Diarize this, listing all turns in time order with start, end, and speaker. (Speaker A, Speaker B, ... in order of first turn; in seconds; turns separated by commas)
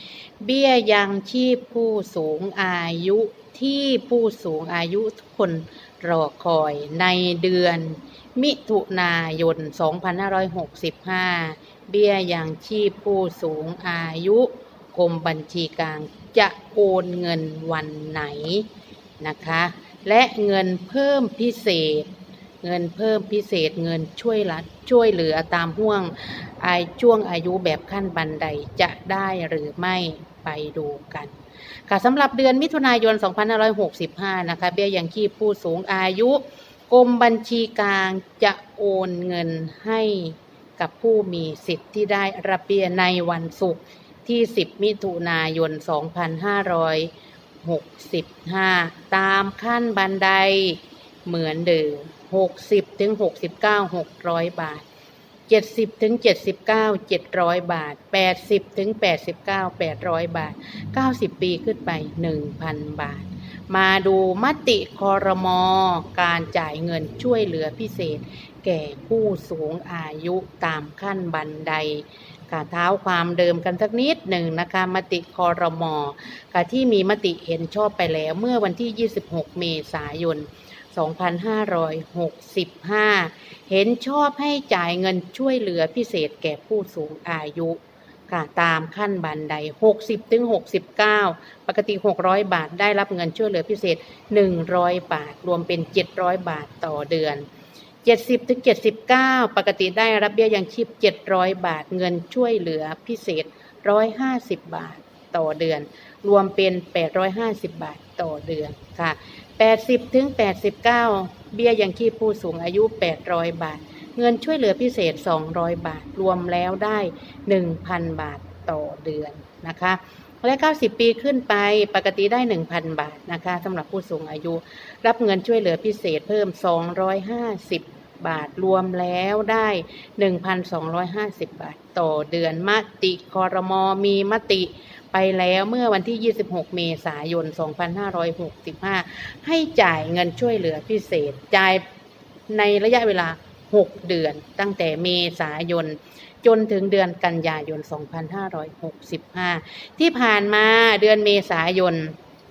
Speaker A: 0.4-18.7, Speaker A: 19.2-22.1, Speaker A: 22.6-31.3, Speaker A: 31.9-47.1, Speaker A: 47.6-54.8, Speaker A: 55.5-87.8, Speaker A: 88.3-97.5, Speaker A: 98.0-141.8, Speaker A: 142.5-152.2